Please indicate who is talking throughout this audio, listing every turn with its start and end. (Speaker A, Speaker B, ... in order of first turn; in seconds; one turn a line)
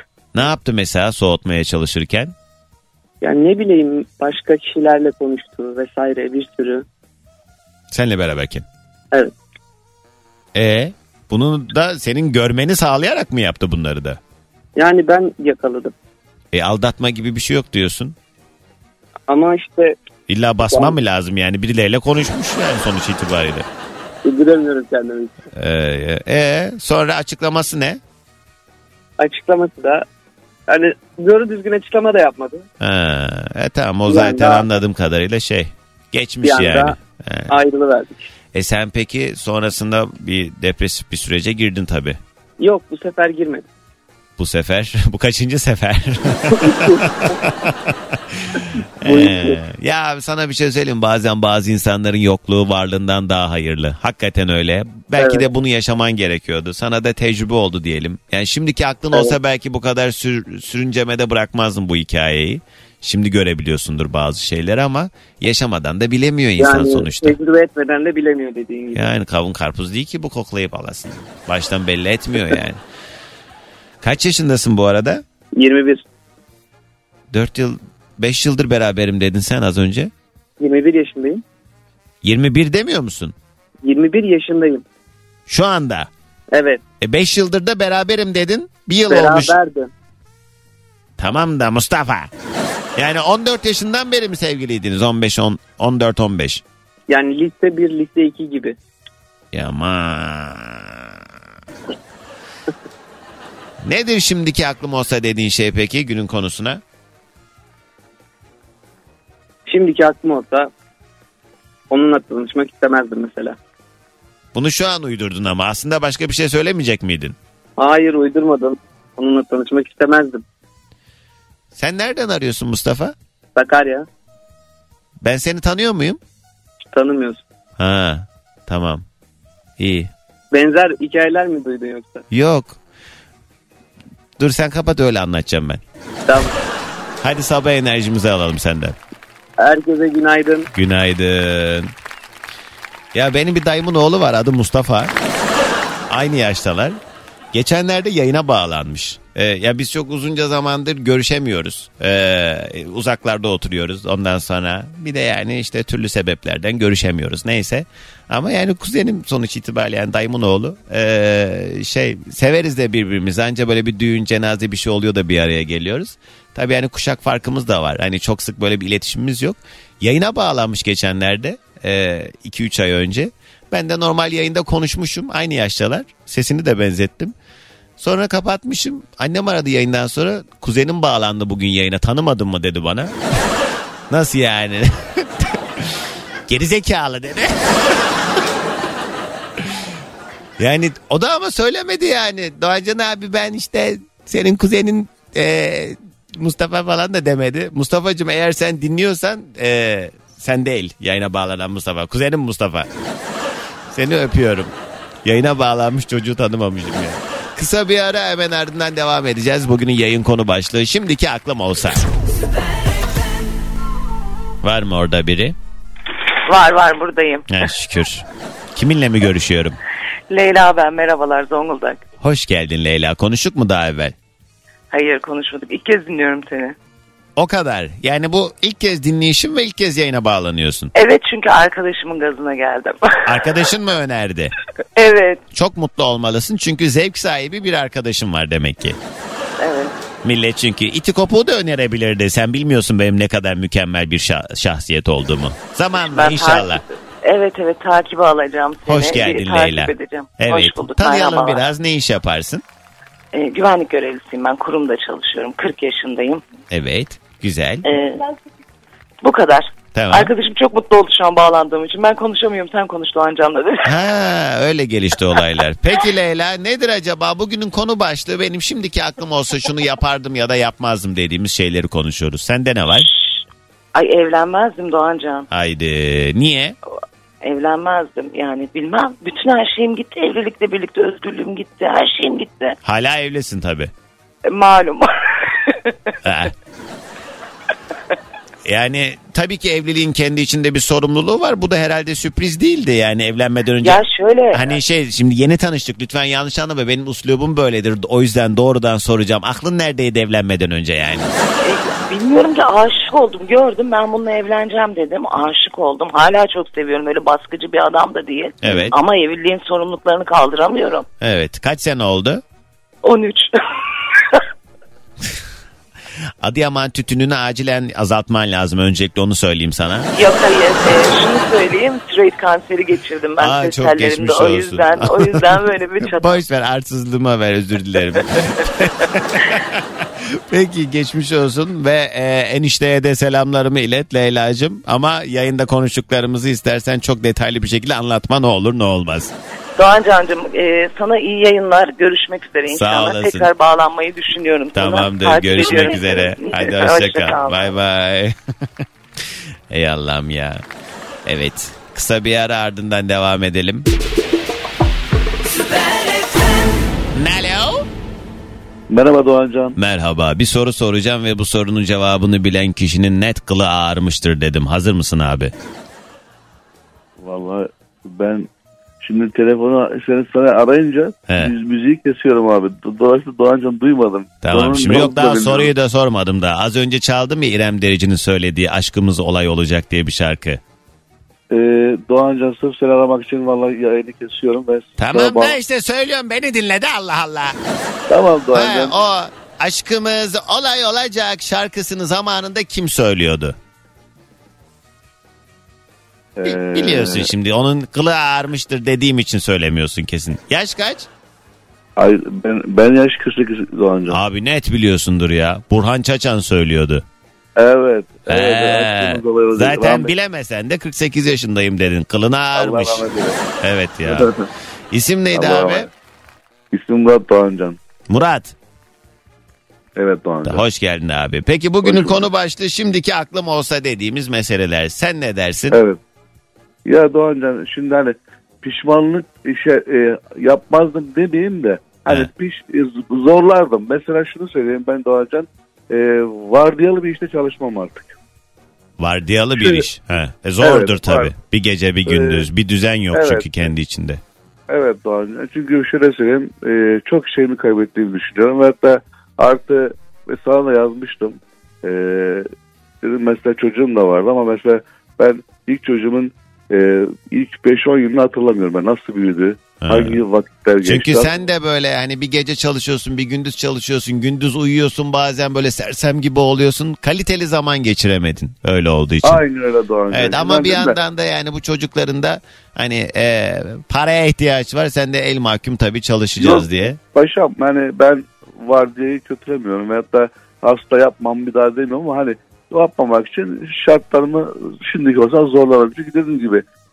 Speaker A: 0.3-2.3
Speaker B: 3.2-6.8
Speaker A: 7.9-8.6
Speaker A: 10.5-14.2
Speaker B: 14.8-15.9
Speaker A: 16.5-18.1
Speaker B: 19.3-19.9
Speaker A: 20.3-23.6
Speaker B: 20.7-20.9
Speaker B: 24.2-25.4
Speaker A: 25.5-28.0
Speaker B: 29.2-30.0
Speaker B: 30.7-32.6
Speaker A: 32.8-37.5
Speaker B: 34.0-34.7
Speaker B: 36.4-37.0
Speaker B: 37.5-38.3
Speaker A: 38.5-42.2
Speaker B: 42.6-43.6
Speaker A: 44.4-67.4
Speaker B: 46.6-47.0
Speaker B: 49.0-49.6
Speaker B: 55.2-55.5
Speaker B: 66.6-69.1
Speaker A: 68.9-72.8
Speaker A: 74.0-75.2
Speaker B: 75.6-76.0
Speaker A: 77.3-80.1
Speaker B: 80.6-81.4
Speaker A: 82.2-83.3
Speaker B: 83.8-84.8
Speaker A: 85.5-86.1
Speaker B: 86.5-86.8
Speaker A: 87.0-89.5
Speaker B: 89.1-89.9
Speaker A: 91.2-92.3
Speaker A: 93.0-96.6
Speaker B: 97.1-98.8
Speaker A: 99.5-101.2
Speaker A: 103.8-106.8
Speaker B: 109.7-110.7
Speaker B: 111.9-113.6
Speaker A: 114.5-117.3
Speaker B: 117.8-120.4
Speaker A: 121.7-123.1
Speaker B: 123.5-124.0
Speaker A: 125.2-126.2
Speaker B: 126.9-127.4
Speaker A: 127.8-129.0
Speaker A: 129.8-130.1
Speaker B: 130.5-132.2
Speaker A: 132.3-132.8
Speaker A: 134.4-135.8
Speaker B: 136.3-136.5
Speaker A: 137.2-138.9
Speaker B: 139.6-140.7
Speaker A: 140.7-141.9
Speaker A: 143.1-145.1
Speaker A: 146.1-147.0
Speaker A: 147.5-177.3
Speaker A: 178.0-183.1
Speaker A: 184.1-188.4
Speaker A: 189.6-189.9
Speaker A: 190.6-202.9
Speaker A: 203.9-204.7
Speaker A: 205.2-212.0
Speaker A: 214.6-215.5
Speaker C: 216.5-217.5
Speaker A: 217.5-219.8
Speaker C: 220.3-222.0
Speaker A: 222.2-224.1
Speaker C: 224.9-226.7
Speaker A: 227.3-230.9
Speaker C: 230.9-233.4
Speaker A: 233.2-234.5
Speaker C: 234.9-235.4
Speaker A: 235.5-239.0
Speaker C: 239.6-239.9
Speaker A: 240.2-246.8
Speaker C: 246.0-251.6
Speaker A: 248.8-252.6
Speaker C: 253.3-256.4
Speaker A: 256.7-257.8
Speaker C: 257.8-258.3
Speaker C: 259.2-263.9
Speaker A: 259.9-260.3
Speaker A: 263.8-273.1
Speaker C: 273.9-275.5
Speaker A: 275.5-276.8
Speaker C: 277.4-282.8
Speaker A: 282.8-283.9
Speaker C: 284.4-286.1
Speaker A: 286.2-286.5
Speaker A: 288.6-294.0
Speaker C: 293.8-294.7
Speaker A: 294.5-301.3
Speaker C: 301.6-311.1
Speaker A: 308.6-308.9
Speaker A: 311.2-312.4
Speaker C: 313.0-314.4
Speaker A: 316.4-320.1
Speaker C: 320.1-326.4
Speaker A: 323.4-325.4
Speaker A: 326.0-339.3
Speaker C: 339.8-347.7
Speaker A: 342.7-343.5
Speaker A: 344.7-348.4
Speaker A: 349.7-350.6
Speaker A: 351.2-353.9
Speaker A: 357.1-357.8
Speaker D: 358.9-359.8
Speaker A: 359.8-365.5
Speaker D: 367.2-368.5
Speaker D: 369.0-375.7
Speaker A: 374.4-380.6
Speaker D: 381.5-385.6
Speaker A: 385.0-387.6
Speaker D: 388.1-388.9
Speaker A: 388.5-393.6
Speaker D: 396.4-397.3
Speaker A: 396.5-401.1
Speaker D: 402.0-404.2
Speaker A: 404.1-407.0
Speaker D: 407.6-410.1
Speaker A: 408.3-413.0
Speaker D: 412.5-413.4
Speaker A: 413.6-414.3
Speaker D: 414.0-414.4
Speaker A: 414.9-415.9
Speaker D: 415.3-415.9
Speaker D: 416.7-417.8
Speaker A: 418.1-418.5
Speaker D: 419.9-420.6
Speaker A: 420.5-425.8
Speaker D: 421.8-422.2
Speaker D: 425.7-426.0
Speaker D: 426.9-438.1
Speaker A: 439.0-444.2
Speaker D: 439.6-439.8
Speaker D: 440.6-441.3
Speaker D: 442.1-442.5
Speaker D: 443.1-443.6
Speaker D: 444.7-452.5
Speaker D: 453.0-461.3
Speaker A: 459.8-460.2
Speaker A: 460.8-469.4
Speaker D: 469.2-471.0
Speaker A: 470.1-477.0
Speaker D: 476.4-486.6